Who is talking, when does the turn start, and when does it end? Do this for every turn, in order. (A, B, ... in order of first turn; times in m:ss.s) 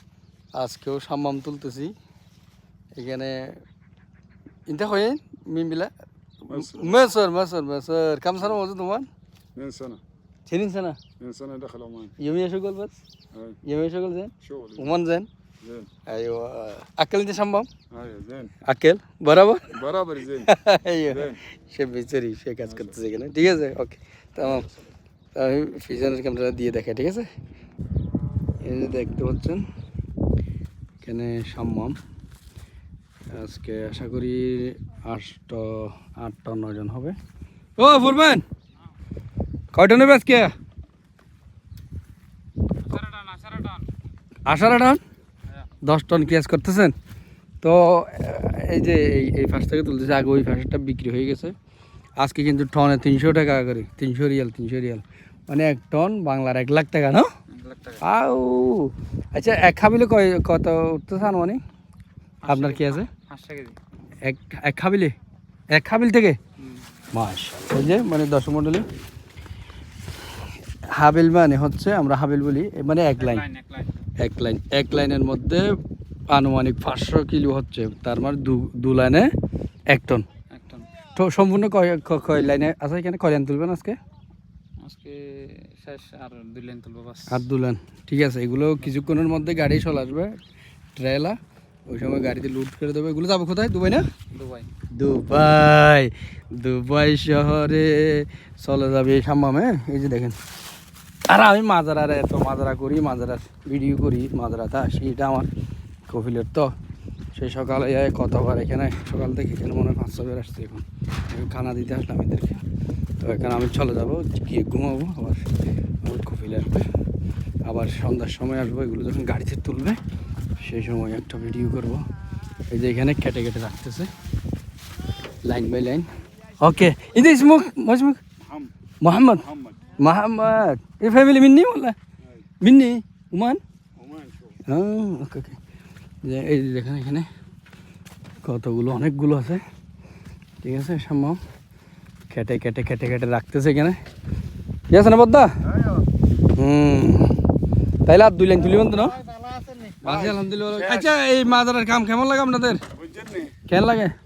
0:00.5-0:01.9 A
0:03.0-0:03.6 A
0:04.7-0:05.9 A
0:06.4-0:09.1 A
0:06.5-0:07.0 B
0:09.6-0:10.0 B
0:10.5-0:11.0 A
0:11.2-0:12.1 B
0:12.2-0:12.9 A
0:13.6-0:15.3 A
0:14.4-0:14.9 B
0:15.6-0:15.9 B
0:16.0-0:17.7 A
0:17.9-0:18.5 B
0:18.6-0:19.8 A
0:19.7-0:20.5 B
0:20.3-0:24.7 A
0:21.1-0:21.4 B
0:25.4-0:27.3 A
0:28.6-0:29.6 A
0:31.0-0:32.0 A
0:33.3-0:37.2 A
0:37.8-0:38.4 A
0:39.7-0:40.5 A
0:42.8-0:43.8 C
0:44.4-0:45.0 A
0:45.8-0:46.9 A
0:47.6-0:51.6 A
0:52.2-0:57.3 A
0:57.5-0:58.0 C
0:58.0-1:01.6 A
1:02.4-1:03.8 C
1:02.5-1:03.1 A
1:04.2-1:05.1 A
1:05.7-1:06.4 A
1:06.6-1:06.8 C
1:07.1-1:08.9 A
1:10.9-1:13.4 A
1:13.2-1:13.9 C
1:14.2-1:15.8 A
1:16.3-1:19.3 A
1:19.9-1:20.2 A
1:20.5-1:20.9 C
1:21.1-1:24.0 A
1:24.8-1:27.4 C
1:27.3-1:30.4 A
1:30.9-1:34.1 A
1:34.3-1:34.7 C
1:34.9-1:40.4 A
1:41.3-1:45.5 A
1:46.1-1:46.7 A
1:47.3-1:52.6 A
1:53.2-1:55.4 A
1:56.0-1:56.9 A
1:57.6-2:00.0 A
2:00.6-2:02.0 A
2:02.7-2:04.1 A
2:05.4-2:06.1 A
2:06.6-2:08.2 A
2:09.0-2:12.0 A
2:12.6-2:13.6 A
2:14.0-2:14.6 B
2:14.7-2:15.6 A
2:16.2-2:17.3 A
2:18.4-2:19.6 A
2:20.6-2:21.4 A
2:22.3-2:24.0 A
2:24.9-2:25.5 A
2:26.5-2:27.4 A
2:28.0-2:29.3 A
2:30.0-2:32.8 A
2:30.1-2:31.1 B
2:33.0-2:33.6 B
2:33.7-2:34.1 A